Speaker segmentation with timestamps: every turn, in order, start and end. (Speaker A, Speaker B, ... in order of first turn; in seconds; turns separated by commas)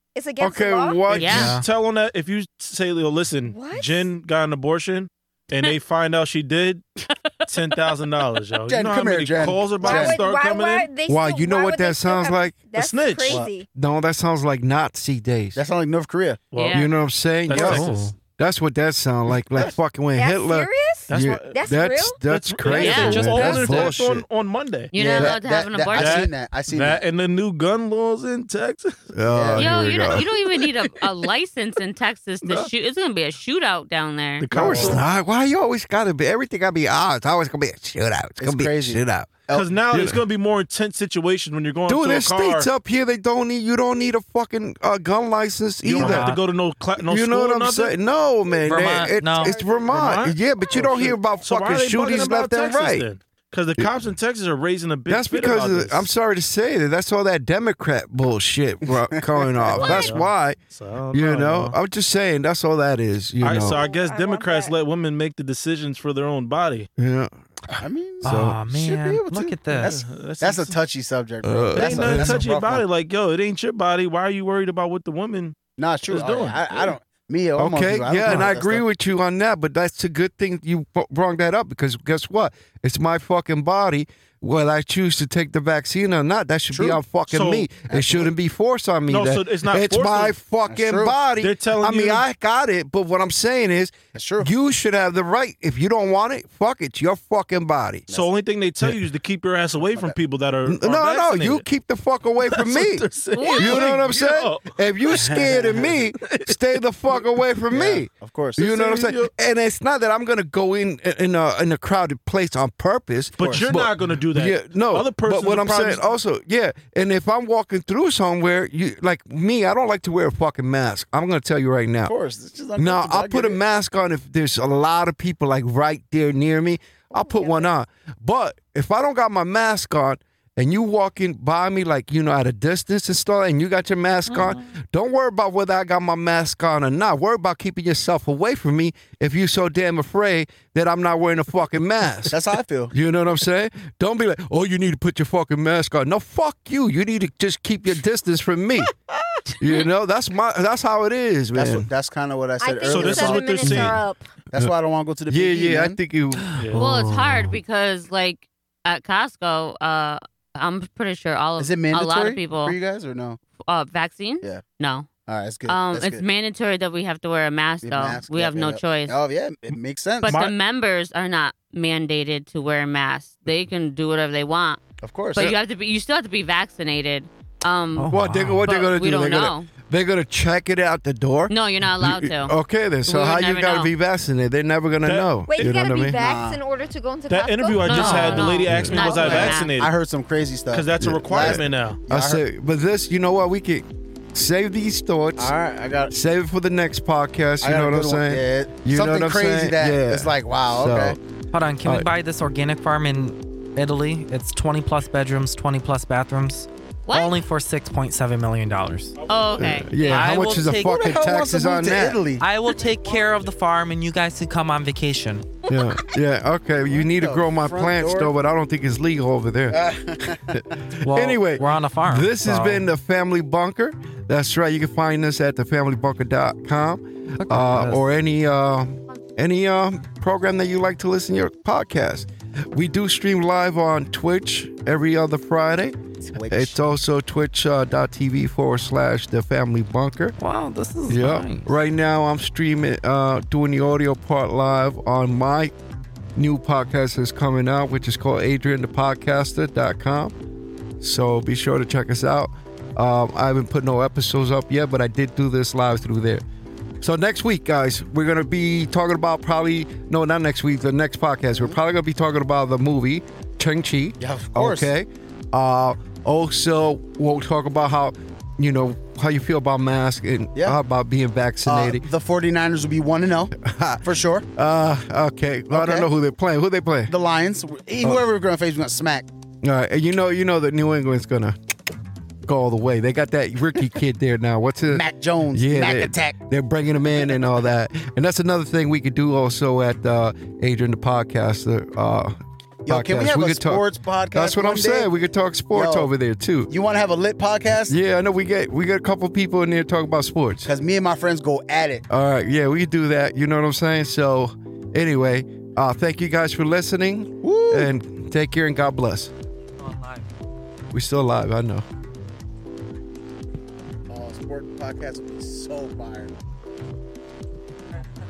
Speaker A: 0.1-1.0, Speaker B: 0.4-1.6, Speaker C: 1.1-6.8, Speaker D: 1.1-1.5, Speaker E: 1.3-1.6, Speaker A: 3.4-4.1, Speaker D: 7.1-7.9, Speaker C: 7.5-10.9, Speaker F: 8.7-10.2, Speaker A: 9.8-13.7, Speaker B: 11.1-12.6, Speaker C: 12.7-13.4, Speaker B: 13.7-15.6, Speaker F: 15.5-16.4, Speaker C: 16.5-16.9, Speaker D: 16.5-16.9, Speaker B: 16.7-24.2, Speaker C: 17.5-18.1, Speaker E: 17.5-18.1, Speaker A: 20.1-22.2, Speaker C: 21.1-21.6, Speaker C: 22.3-24.9, Speaker D: 22.7-23.3, Speaker E: 22.9-23.8, Speaker A: 23.4-23.8, Speaker D: 24.9-26.3, Speaker F: 24.9-27.0, Speaker C: 25.9-29.1, Speaker B: 29.1-30.3, Speaker F: 29.3-29.7, Speaker D: 29.5-34.9, Speaker C: 32.4-32.7, Speaker C: 34.4-35.0, Speaker B: 34.5-40.2, Speaker F: 34.7-35.0, Speaker F: 38.4-39.7, Speaker C: 39.5-42.7, Speaker B: 41.9-46.4, Speaker C: 45.8-47.9, Speaker E: 46.0-46.4, Speaker B: 47.0-53.0, Speaker E: 48.6-49.5, Speaker C: 49.5-56.1, Speaker B: 55.1-60.6, Speaker F: 58.9-60.0, Speaker A: 59.7-60.1, Speaker C: 59.7-61.8, Speaker B: 61.1-63.8, Speaker C: 63.4-66.9, Speaker A: 63.7-64.7, Speaker B: 67.0-68.6, Speaker F: 67.8-72.8, Speaker E: 68.2-69.9, Speaker C: 69.8-70.8, Speaker B: 71.4-72.4, Speaker C: 71.7-75.6, Speaker F: 75.8-78.8, Speaker C: 76.1-76.9, Speaker B: 77.6-98.0, Speaker F: 86.7-87.0, Speaker C: 87.3-87.7, Speaker F: 87.9-88.3, Speaker C: 89.1-90.3, Speaker F: 90.7-91.2, Speaker C: 91.3-92.2, Speaker F: 94.1-94.5, Speaker C: 98.1-101.6, Speaker F: 99.8-100.1, Speaker B: 100.6-122.1, Speaker C: 102.4-107.2, Speaker D: 103.3-103.8, Speaker F: 105.1-105.9, Speaker F: 107.7-108.7, Speaker C: 108.7-109.3, Speaker C: 113.4-116.0, Speaker F: 113.4-113.7, Speaker F: 122.0-123.6, Speaker B: 122.8-142.4, Speaker A: 127.1-127.7, Speaker F: 142.3-142.9, Speaker B: 142.9-148.9, Speaker B: 149.6-151.9, Speaker F: 151.5-153.9, Speaker A: 152.6-154.2, Speaker C: 152.9-154.0, Speaker F: 154.5-156.0, Speaker B: 155.3-157.6, Speaker D: 156.7-162.8, Speaker F: 161.6-163.4, Speaker D: 163.6-165.1, Speaker F: 165.2-166.2, Speaker D: 165.7-169.2, Speaker F: 167.8-170.4, Speaker C: 169.7-170.5, Speaker D: 170.2-174.8, Speaker F: 175.0-175.6, Speaker D: 175.3-178.1, Speaker E: 177.9-178.7, Speaker B: 178.1-186.2, Speaker D: 178.6-179.7, Speaker D: 181.5-182.5, Speaker D: 183.0-183.9, Speaker C: 185.0-185.7, Speaker A: 185.5-189.6, Speaker F: 186.2-186.6, Speaker C: 187.3-189.9, Speaker D: 187.8-189.7, Speaker E: 187.9-188.4, Speaker B: 188.7-189.2, Speaker F: 189.8-192.4, Speaker C: 190.7-192.0, Speaker B: 191.0-195.5, Speaker F: 195.4-196.1, Speaker B: 196.1-201.2, Speaker F: 197.6-201.2, Speaker E: 201.5-209.2, Speaker B: 201.8-202.1, Speaker D: 207.1-207.4, Speaker C: 209.2-210.2, Speaker D: 209.3-210.5, Speaker B: 209.6-212.2, Speaker E: 210.0-211.1, Speaker F: 210.7-212.5, Speaker E: 212.4-215.6, Speaker B: 215.7-236.0, Speaker F: 216.9-218.3, Speaker F: 219.7-220.6, Speaker E: 221.0-222.9, Speaker E: 227.4-228.0, Speaker F: 236.2-236.8, Speaker B: 236.5-240.3, Speaker E: 240.4-241.7, Speaker B: 241.1-245.7, Speaker B: 246.3-250.3, Speaker B: 251.0-256.4, Speaker B: 257.0-272.1, Speaker F: 261.5-261.8, Speaker F: 264.2-264.9, Speaker F: 271.6-274.4, Speaker B: 273.6-277.1, Speaker F: 275.7-276.1, Speaker F: 277.1-279.3, Speaker B: 279.6-281.5, Speaker B: 282.4-292.3, Speaker F: 284.9-286.4, Speaker F: 292.9-295.1, Speaker B: 292.9-296.7, Speaker F: 295.7-296.1, Speaker F: 296.7-297.9, Speaker B: 297.9-300.7, Speaker F: 300.6-302.0, Speaker B: 302.1-309.3, Speaker F: 307.4-307.9, Speaker B: 310.9-311.8, Speaker F: 314.1-316.3